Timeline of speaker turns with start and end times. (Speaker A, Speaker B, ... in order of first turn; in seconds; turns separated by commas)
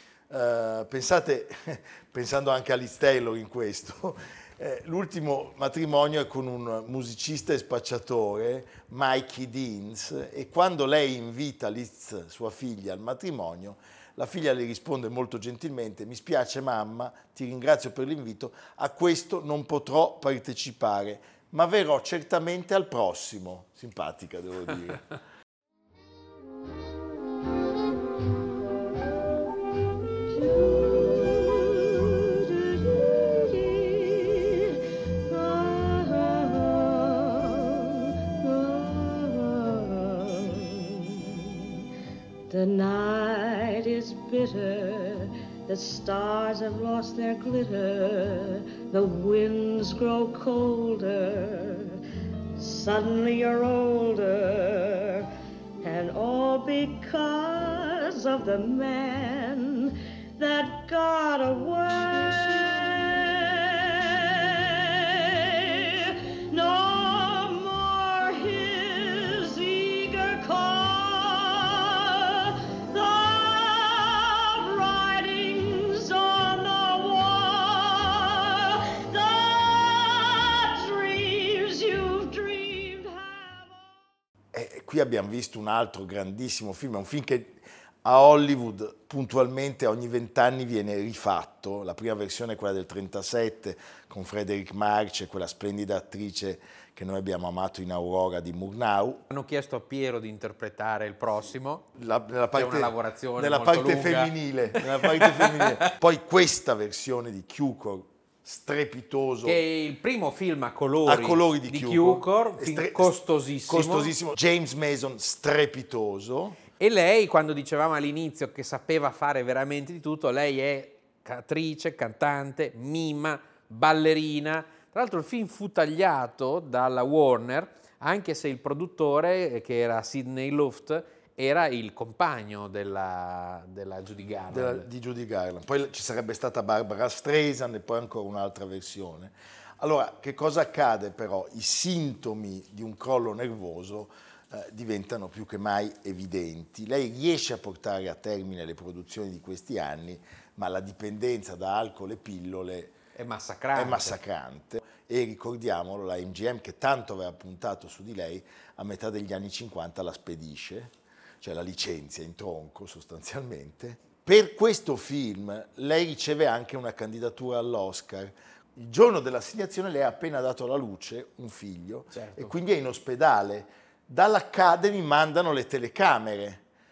Speaker A: 0.3-25.2, Speaker B: 42.5-45.0, Speaker B: 45.7-51.8, Speaker B: 52.6-55.2, Speaker B: 55.8-59.8, Speaker B: 60.4-63.0, Speaker B: 66.5-71.4, Speaker B: 72.9-73.8, Speaker B: 74.5-78.1, Speaker B: 79.1-79.5, Speaker B: 80.9-83.7, Speaker A: 84.5-99.2, Speaker C: 99.3-101.9, Speaker A: 102.0-109.6, Speaker C: 102.5-105.7, Speaker C: 109.4-114.1, Speaker A: 111.0-116.6, Speaker C: 116.8-134.9, Speaker A: 134.5-153.0, Speaker C: 153.2-154.2, Speaker A: 153.7-176.6, Speaker C: 172.1-172.5